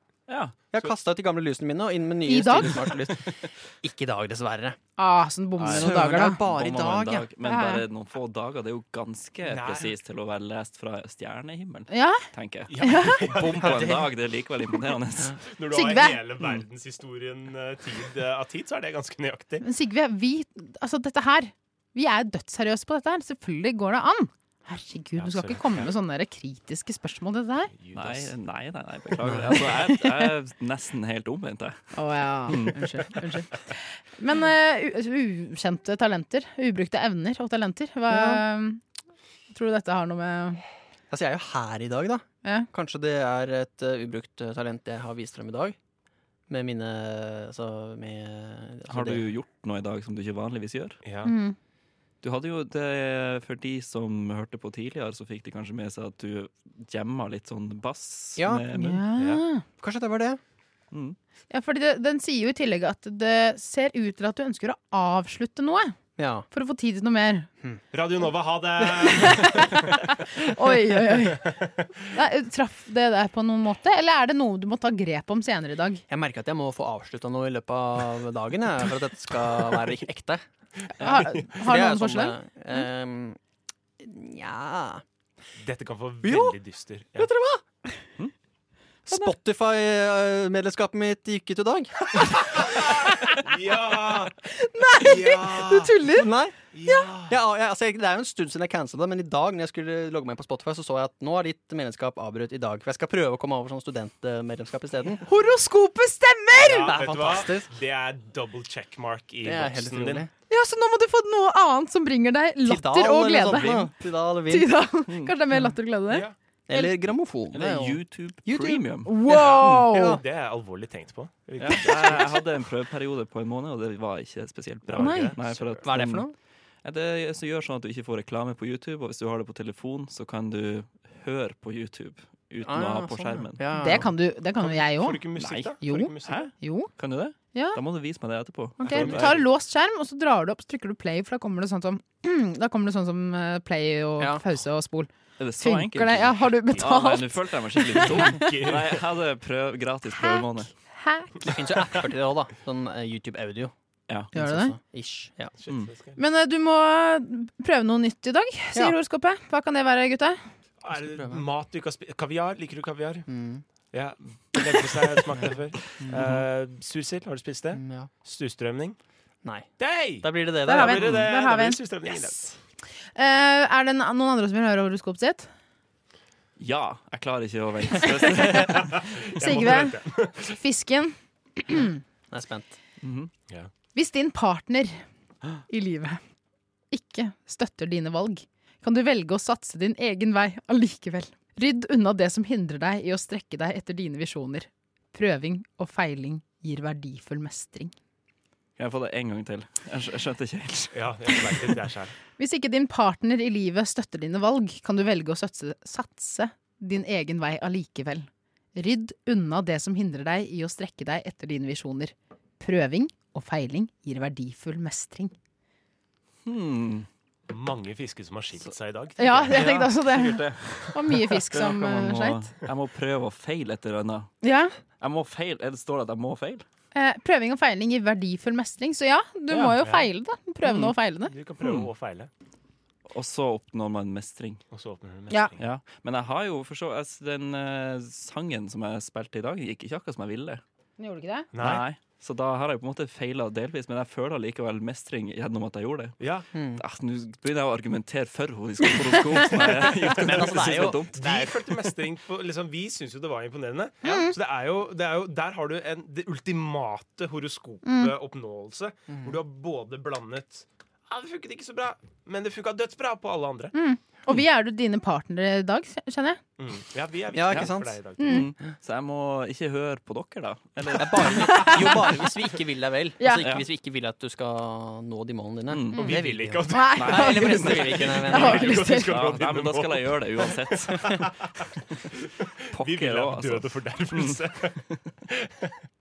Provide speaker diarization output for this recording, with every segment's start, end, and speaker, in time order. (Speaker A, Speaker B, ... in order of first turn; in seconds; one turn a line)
Speaker A: 0.3-0.6
Speaker B: 0.7-4.8
Speaker C: 2.3-2.9
Speaker C: 5.0-6.4
Speaker D: 5.6-5.9
Speaker B: 5.6-7.3
Speaker A: 6.2-15.4
Speaker C: 7.4-7.8
Speaker D: 9.4-9.9
Speaker C: 11.9-12.2
Speaker D: 12.7-14.1
Speaker C: 12.8-13.4
Speaker D: 15.4-19.6
Speaker C: 15.7-16.2
Speaker C: 19.6-27.7
Speaker D: 25.2-25.9
Speaker D: 27.7-28.3
Speaker A: 27.9-31.9
Speaker C: 31.9-38.8
Speaker A: 32.5-32.9
Speaker B: 38.1-38.4
Speaker C: 39.5-40.6
Speaker B: 41.1-45.8
Speaker B: 46.5-49.2
Speaker A: 48.9-51.0
Speaker D: 51.0-51.4
Speaker C: 51.2-51.6
Speaker A: 52.2-59.0
Speaker B: 58.4-58.6
Speaker C: 58.7-59.6
Speaker B: 59.8-60.4
Speaker A: 60.9-61.2
Speaker C: 61.5-66.0
Speaker B: 66.2-66.5
Speaker C: 66.5-67.5
Speaker D: 67.9-70.0
Speaker C: 69.0-76.0
Speaker D: 71.0-71.9
Speaker B: 76.1-80.4
Speaker C: 81.0-82.4
Speaker D: 81.1-81.5
Speaker B: 81.5-83.4
Speaker B: 84.0-85.0
Speaker D: 85.6-87.3
Speaker B: 86.2-86.6
Speaker B: 87.2-87.7
Speaker B: 89.1-92.6
Speaker D: 92.6-94.4
Speaker C: 94.5-96.3
Speaker D: 95.0-95.9
Speaker B: 96.1-96.6
Speaker D: 96.7-97.4
Speaker B: 97.2-105.2
Speaker C: 105.2-106.9
Speaker B: 106.6-107.7
Speaker D: 106.6-110.3
Speaker B: 109.4-110.3
Speaker C: 110.5-113.9
Speaker B: 112.6-114.9
Speaker C: 114.5-116.9
Speaker A: 115.1-115.3
Speaker D: 116.1-116.3
Speaker B: 116.7-120.2
Speaker A: 117.5-119.2
Speaker C: 119.0-120.2
Speaker D: 119.3-122.4
Speaker A: 121.6-126.3
Speaker D: 124.9-125.9
Speaker C: 125.0-125.4
Speaker B: 125.8-126.3
Speaker A: 126.8-134.0
Speaker B: 132.6-134.1
Speaker C: 133.7-135.3
Speaker D: 134.6-136.5
Speaker A: 135.4-139.3
Speaker C: 135.8-136.9
Speaker C: 137.5-137.8
Speaker C: 138.8-148.5
Speaker D: 138.8-139.5
Speaker B: 138.9-139.2
Speaker A: 145.4-150.7
Speaker D: 148.0-149.0
Speaker C: 150.1-151.5
Speaker B: 151.5-153.7
Speaker B: 154.3-155.5
Speaker C: 154.3-154.8
Speaker D: 155.6-156.2
Speaker C: 156.2-160.4
Speaker D: 160.8-163.3
Speaker B: 160.9-161.5
Speaker B: 163.3-163.6
Speaker D: 163.9-169.0
Speaker B: 165.4-166.3
Speaker A: 166.2-166.4
Speaker B: 167.7-168.1
Speaker D: 169.8-172.6
Speaker B: 170.2-171.2
Speaker C: 170.6-171.8
Speaker C: 173.2-175.5
Speaker A: 176.6-179.0
Speaker C: 178.1-178.8
Speaker D: 178.6-180.6
Speaker C: 179.3-182.0
Speaker B: 182.3-182.7
Speaker A: 183.0-183.3
Speaker C: 183.9-185.0
Speaker C: 185.7-186.2
Speaker C: 186.9-197.9
Speaker A: 198.8-201.8
Speaker D: 200.9-202.2
Speaker C: 202.4-215.3
Speaker A: 216.4-217.1
Speaker D: 217.5-219.7
Speaker C: 219.2-222.5
Speaker A: 219.4-224.3
Speaker C: 224.4-224.8
Speaker A: 225.0-226.6
Speaker C: 226.9-231.3
Speaker A: 229.5-229.8
Speaker D: 231.3-232.3
Speaker A: 231.6-231.9
Speaker A: 233.1-234.6
Speaker D: 234.7-235.7
Speaker A: 235.6-240.6
Speaker C: 241.0-241.5
Speaker D: 241.5-241.8
Speaker A: 241.6-246.2
Speaker D: 246.2-246.5
Speaker B: 246.5-246.8
Speaker A: 246.8-251.3
Speaker B: 250.1-251.7
Speaker D: 250.3-263.7
Speaker C: 254.0-254.3
Speaker C: 257.9-258.1
Speaker B: 259.1-259.4
Speaker C: 263.7-266.4
Speaker D: 266.6-268.4
Speaker B: 267.3-268.0
Speaker A: 267.5-272.0
Speaker C: 268.2-268.5
Speaker B: 270.9-278.7
Speaker C: 271.3-272.1
Speaker C: 273.2-273.5
Speaker A: 275.7-276.2
Speaker D: 276.0-277.3
Speaker C: 276.7-279.1
Speaker A: 277.0-281.3
Speaker D: 278.3-285.8
Speaker A: 282.7-284.4